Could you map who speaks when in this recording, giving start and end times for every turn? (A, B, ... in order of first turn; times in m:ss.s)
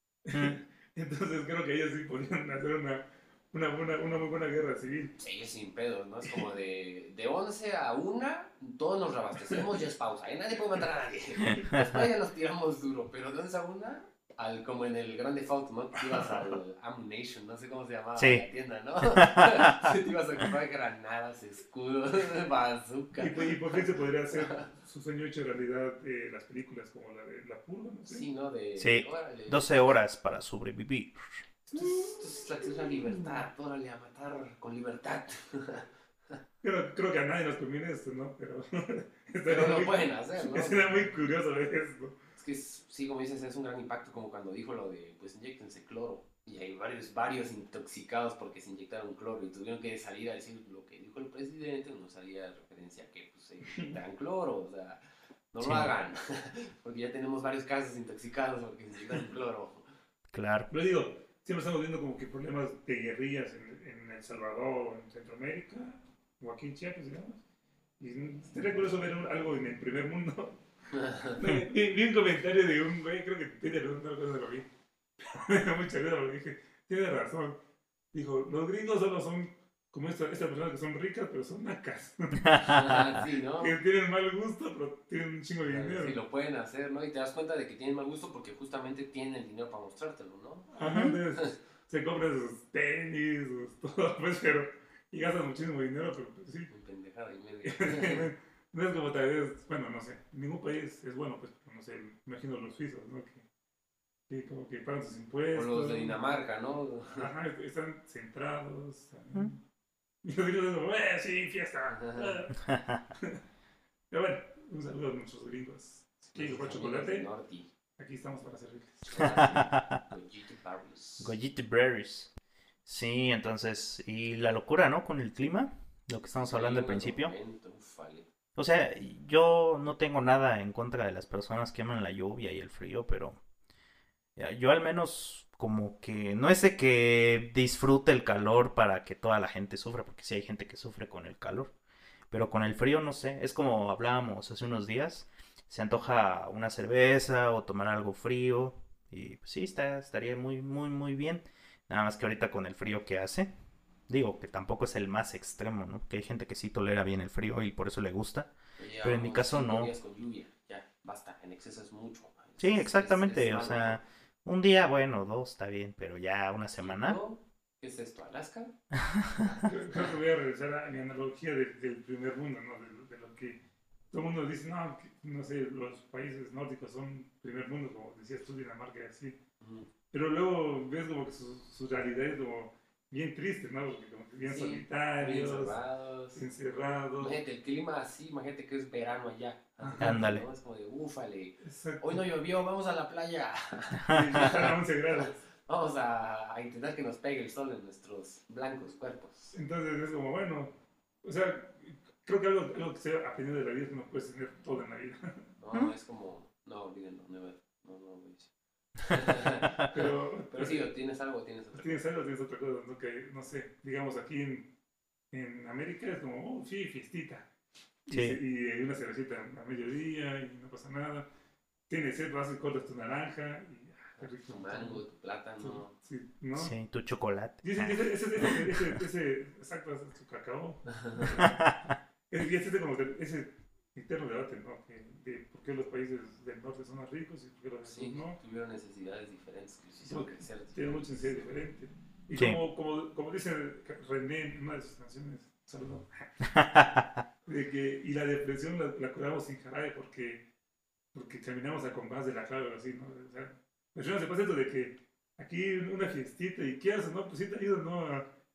0:00.2-0:05.1 A
0:00.3-0:00.6 B
0:05.2-0:24.7 C
0:16.2-0:16.4 A
0:18.2-0:18.4 B
0:19.1-0:19.9 B
0:23.2-0:28.3 A
0:28.1-0:29.8 C
0:28.8-0:31.4 B
0:31.7-0:33.4 A
0:31.7-0:35.9 C
0:36.6-0:42.2 A
0:39.4-0:41.1 C
0:42.4-0:59.9 C
0:53.6-0:54.0 A
0:55.6-0:55.9 B
1:00.3-1:00.7 B
1:00.7-1:07.4 A
1:08.0-1:10.6 A
1:11.0-1:11.3 C
1:11.2-1:14.7 A
1:15.2-1:17.6 A
1:18.1-1:22.4 A
1:22.4-1:23.0 B
1:22.6-1:23.8 C
1:23.6-1:26.2 A
1:25.6-1:30.7 C
1:30.7-1:36.7 A
1:30.8-1:31.2 B
1:36.7-1:38.3 C
1:37.6-1:43.4 A
1:44.3-1:46.2 A
1:45.5-1:47.3 C
1:47.1-1:49.6 A
1:50.2-1:52.6 A
1:51.9-1:52.3 C
1:52.6-1:53.0 B
1:54.1-1:57.3 A
1:56.3-1:57.7 C
1:58.0-1:59.5 A
1:59.0-2:01.4 C
1:59.2-2:00.0 B
2:01.2-2:02.3 B
2:02.8-2:07.3 B
2:06.3-2:08.3 C
2:08.6-2:13.4 B
2:14.4-2:21.7 B
2:22.3-2:33.5 B
2:34.1-2:39.9 B
2:38.8-2:44.0 C
2:42.6-2:47.2 B
2:46.8-2:48.7 C
2:49.0-2:49.5 B
2:49.6-2:53.6 A
2:54.1-2:59.4 A
2:59.6-2:59.9 C
3:00.1-3:05.8 A
3:04.4-3:06.4 C
3:06.3-3:07.4 A
3:07.2-3:19.5 C
3:09.8-3:10.2 A
3:10.0-3:10.4 B
3:11.6-3:12.2 A
3:14.1-3:14.5 B
3:14.1-3:15.4 A
3:19.5-3:25.4 A
3:25.6-3:28.5 C
3:29.0-3:29.9 C
3:29.9-3:30.9 A
3:30.5-3:32.0 C
3:31.7-3:34.7 A
3:35.3-3:37.5 A
3:38.0-3:41.3 A
3:38.1-3:38.4 B
3:41.9-3:45.0 A
3:44.2-3:45.9 C
3:45.6-3:46.7 A
3:46.5-3:48.8 B
3:47.6-3:51.6 A
3:50.9-3:51.4 C
3:51.3-3:52.0 B
3:52.3-3:58.4 A
3:57.8-4:01.5 C
4:00.0-4:06.2 A
4:06.5-4:07.2 B
4:07.4-4:10.5 A
4:11.1-4:18.3 A